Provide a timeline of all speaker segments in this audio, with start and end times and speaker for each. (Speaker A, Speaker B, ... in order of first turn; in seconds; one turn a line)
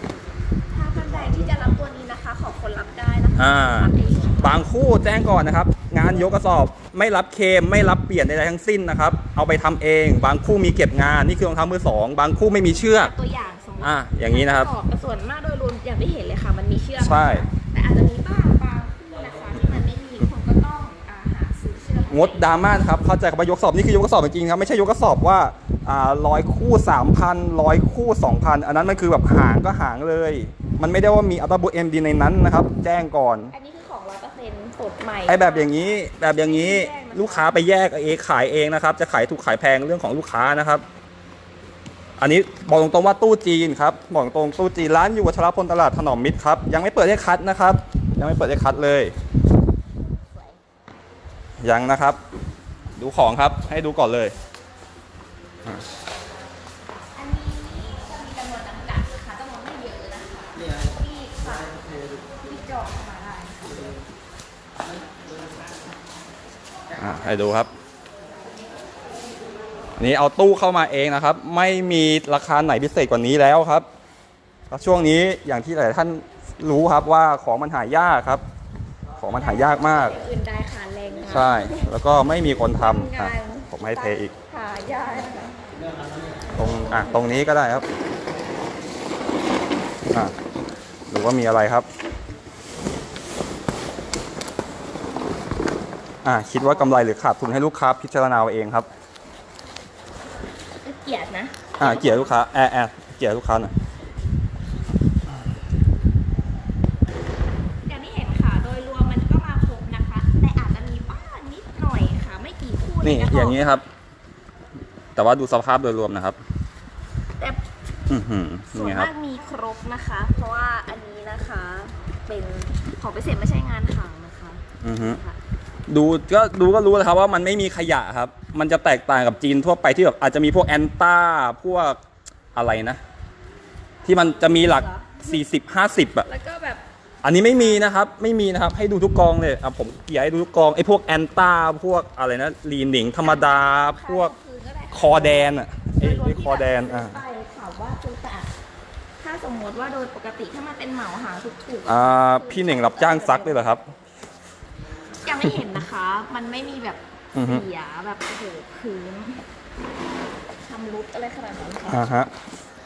Speaker A: 0.7-4.7
Speaker B: 3.4-13.1
Speaker A: 12.8-22.6
Speaker B: 13.8-14.7
Speaker B: 17.0-17.5
Speaker B: 22.1-33.5
Speaker A: 33.5-37.5
Speaker B: 35.3-40.8
Speaker B: 42.2-49.1
Speaker B: 51.6-52.2
Speaker B: 53.0-54.3
Speaker A: 57.1-61.8
Speaker A: 62.4-63.9
Speaker B: 67.0-67.7
Speaker B: 70.0-73.8
Speaker B: 74.7-78.4
Speaker B: 79.2-80.2
Speaker A: 79.4-81.9
Speaker B: 81.3-84.3
Speaker A: 82.7-85.6
Speaker A: 86.5-87.3
Speaker B: 86.6-87.8
Speaker B: 91.1-91.9
Speaker B: 96.2-98.9
Speaker A: 100.8-102.4
Speaker B: 101.8-103.7
Speaker A: 107.8-113.7
Speaker B: 113.0-113.8
Speaker B: 115.2-116.4
Speaker B: 118.1-119.1
Speaker A: 118.7-125.4
Speaker B: 124.8-125.2
Speaker B: 125.9-132.0
Speaker B: 132.5-133.0
Speaker B: 134.0-136.2
Speaker A: 134.1-135.4
Speaker A: 136.2-137.9
Speaker B: 137.2-144.3
Speaker A: 143.2-148.5
Speaker B: 144.9-147.2
Speaker A: 149.2-153.8
Speaker B: 151.8-153.8
Speaker A: 155.2-159.4
Speaker B: 157.3-157.6
Speaker A: 160.6-162.0
Speaker B: 161.9-162.3